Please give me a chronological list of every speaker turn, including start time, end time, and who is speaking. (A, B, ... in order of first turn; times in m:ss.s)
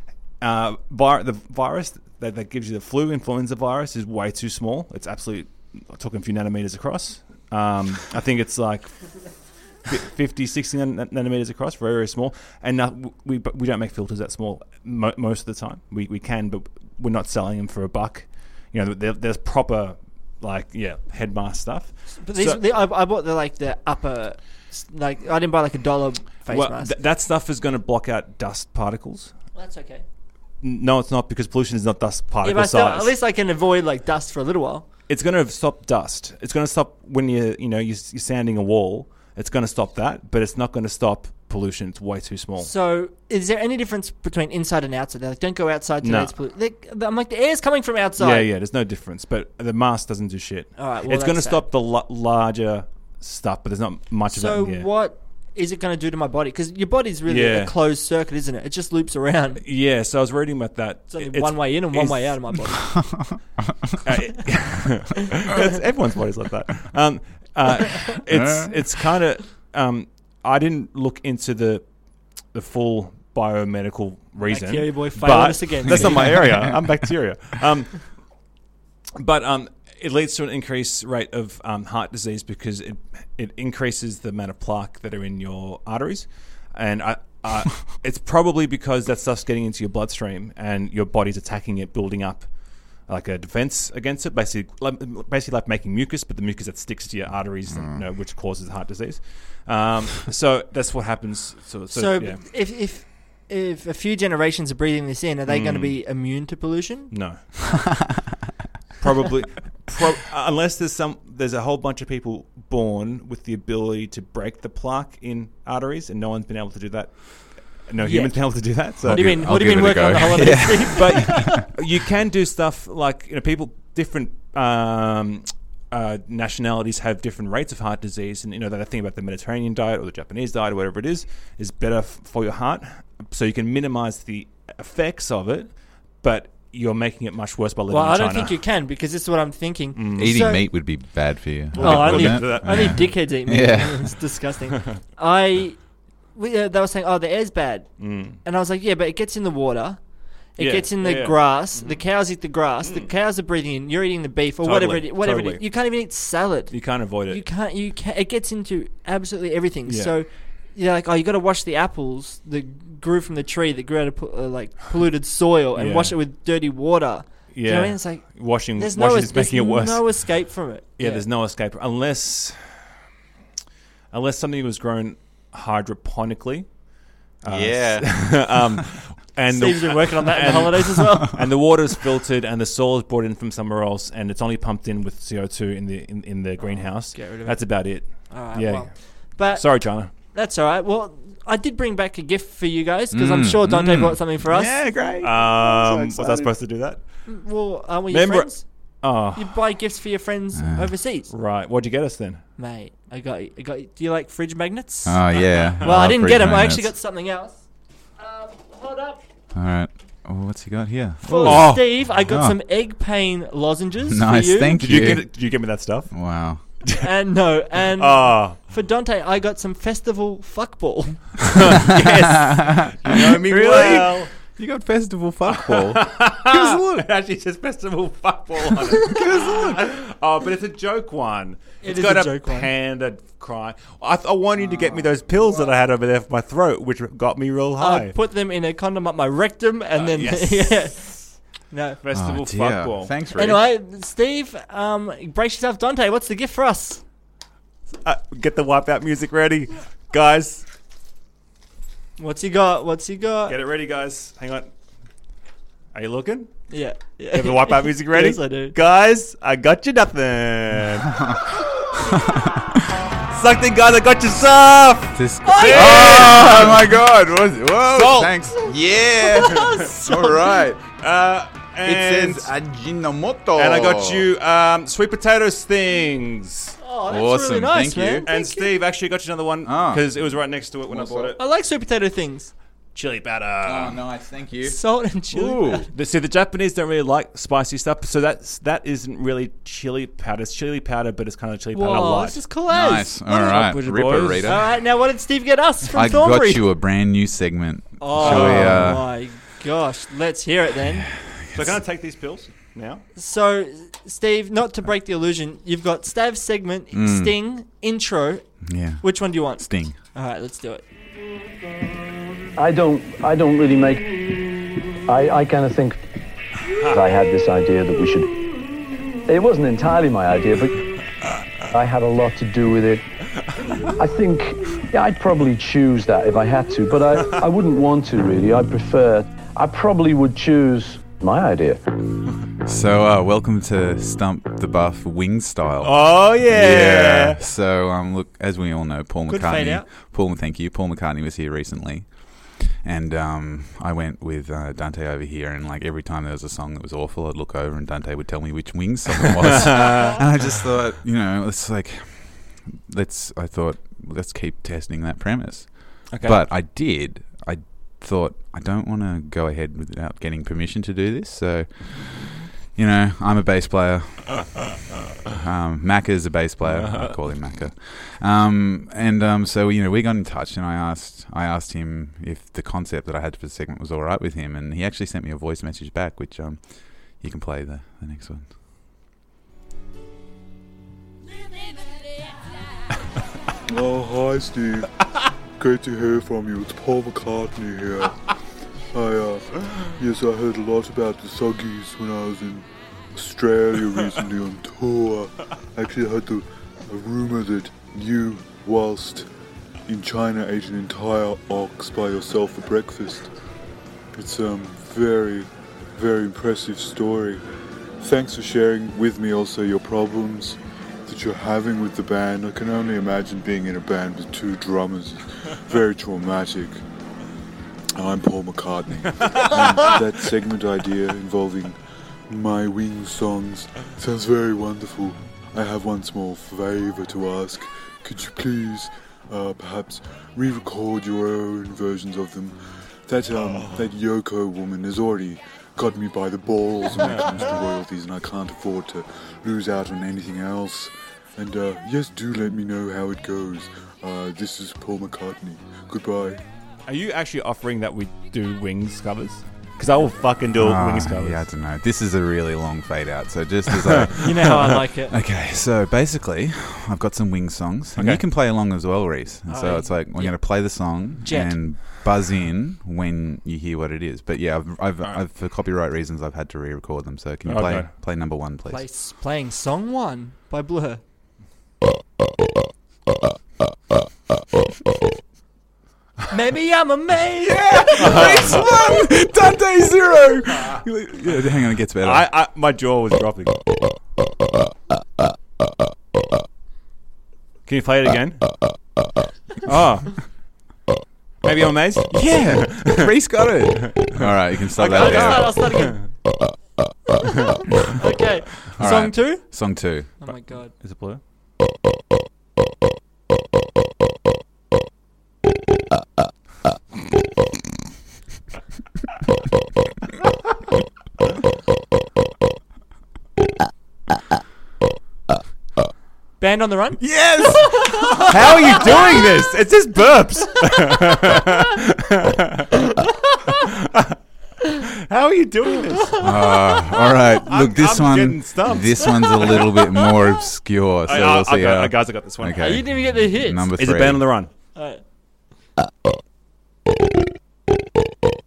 0:00.4-0:22.6 A
0:22.2-0:26.9 B
0:26.5-0:29.3 A
0:29.6-0:30.0 B
0:30.6-0:33.2 A
0:32.4-0:34.9 B
0:35.1-0:42.7 A
0:42.6-0:48.5 B
0:46.0-0:46.4 A
0:48.2-0:54.9 A
0:50.8-0:51.6 B
0:54.3-0:59.6 B
0:57.3-0:57.7 A
0:59.6-1:02.6 A
1:01.1-1:03.1 B
1:04.0-1:11.9 A
1:08.3-1:08.8 C
1:12.4-1:18.1 A
1:14.5-1:16.4 B
1:15.9-1:17.1 C
1:19.2-1:42.4 A
1:37.7-1:38.0 C
1:41.9-1:47.8 B
1:45.5-1:46.0 A
1:47.1-1:47.8 A
1:49.0-1:59.6 A
1:58.0-2:01.6 B
1:59.1-2:01.6 C
2:00.4-2:18.6 A
2:17.9-2:20.7 B
2:19.9-2:20.4 A
2:20.2-2:24.3 C
2:21.7-2:23.2 A
2:21.8-2:51.2 B
2:28.0-2:28.4 A
2:30.6-2:32.0 A
2:32.8-2:33.1 A
2:34.6-2:35.6 A
2:36.7-2:37.4 A
2:39.9-2:40.1 A
2:45.7-2:46.1 A
2:47.5-2:50.4 A
2:51.0-2:52.9 A
2:54.1-2:56.8 A
2:57.3-3:10.1 A
2:57.5-2:58.6 C
2:59.5-3:01.4 B
3:06.6-3:14.8 B
3:13.1-3:16.5 C
3:14.5-3:17.2 A
3:17.3-3:18.6 B
3:18.1-3:19.6 A
3:19.3-3:21.3 B
3:20.6-3:20.9 C
3:21.3-3:22.4 A
3:22.6-3:25.2 B
3:25.0-3:26.9 C
3:25.8-3:27.6 B
3:28.2-3:29.2 B
3:29.5-3:32.6 C
3:31.2-3:35.1 B
3:31.4-3:31.9 A
3:34.1-3:35.6 C
3:34.8-3:36.2 A
3:36.1-3:36.6 C
3:37.0-3:41.7 B
3:37.9-3:38.6 A
3:41.5-3:44.3 A
3:42.4-3:47.1 C
3:45.5-3:58.1 A
3:48.9-3:49.9 C
3:51.8-3:52.7 B
3:57.8-4:02.0 B
3:59.9-4:01.3 A
4:02.0-4:03.1 A
4:02.1-4:03.6 C
4:03.4-4:07.0 B
4:08.0-4:10.6 A
4:12.2-4:13.6 B
4:13.5-4:14.7 A
4:15.9-4:16.6 A
4:16.7-4:18.7 B
4:17.3-4:21.1 A
4:22.4-4:22.6 C
4:23.3-4:26.9 A
4:25.1-4:30.9 C
4:25.4-4:26.6 B
4:27.9-4:28.4 A
4:29.2-4:30.7 B
4:31.0-4:32.5 A
4:31.8-4:34.3 C
4:33.6-4:36.8 A
4:36.8-4:38.7 B
4:37.1-4:38.3 C
4:38.2-4:41.4 A
4:39.6-4:40.1 C
4:40.9-4:41.3 C
4:41.4-4:42.5 B
4:42.9-4:44.0 A
4:43.6-4:45.9 C
4:44.6-4:45.9 B
4:45.9-4:52.4 A
4:51.7-4:53.6 B
4:52.7-4:54.6 C
4:53.4-4:54.7 A
4:54.4-4:56.6 B
4:55.9-4:59.1 C
4:58.0-5:01.1 B
4:58.2-4:58.9 A
5:01.2-5:01.8 C
5:01.6-5:03.0 A
5:03.2-5:10.8 B
5:06.9-5:07.4 C
5:08.6-5:10.0 C
5:12.6-5:14.3 D
5:15.1-5:16.0 D
5:16.9-5:18.4 D
5:19.3-5:20.9 D
5:21.7-5:23.0 D
5:23.9-5:31.8 D
5:32.6-6:04.7 C
5:35.8-5:37.4 A
5:39.3-5:39.9 B
5:49.4-5:50.2 A
5:56.1-5:56.4 A
6:05.4-6:16.6 C
6:06.6-6:07.2 A
6:17.1-6:18.4 C
6:23.6-6:25.0 E
6:25.6-6:28.3 E
6:28.9-6:39.3 E
6:39.9-6:43.3 E
6:44.1-6:47.4 E
6:48.0-6:56.8 E
6:57.9-7:26.4 E
7:26.9-7:31.4 A
7:30.5-7:48.9 C
7:33.9-7:34.7 A
7:34.2-7:35.1 B
7:37.9-7:38.2 A
7:39.5-7:41.7 B
7:47.4-7:47.9 A
7:48.6-7:51.0 B
7:56.3-7:58.7 B
7:57.4-8:02.3 C
7:58.0-7:58.6 A
8:02.0-8:03.6 A
8:07.6-8:08.5 A
8:09.6-8:10.3 A
8:11.4-8:16.1 A
8:12.1-8:15.6 C
8:14.9-8:16.0 B
8:17.9-8:20.7 B
8:18.8-8:20.3 C
8:20.8-8:21.2 A
8:36.4-8:38.3 B
8:37.0-8:39.1 C
8:38.2-8:43.0 A
8:43.5-8:44.2 A
8:44.8-8:46.6 A
8:46.2-8:54.3 C
8:47.4-8:49.7 A
8:51.0-8:52.7 A
8:52.6-8:53.7 B
8:53.8-8:54.5 A
8:54.7-8:55.0 B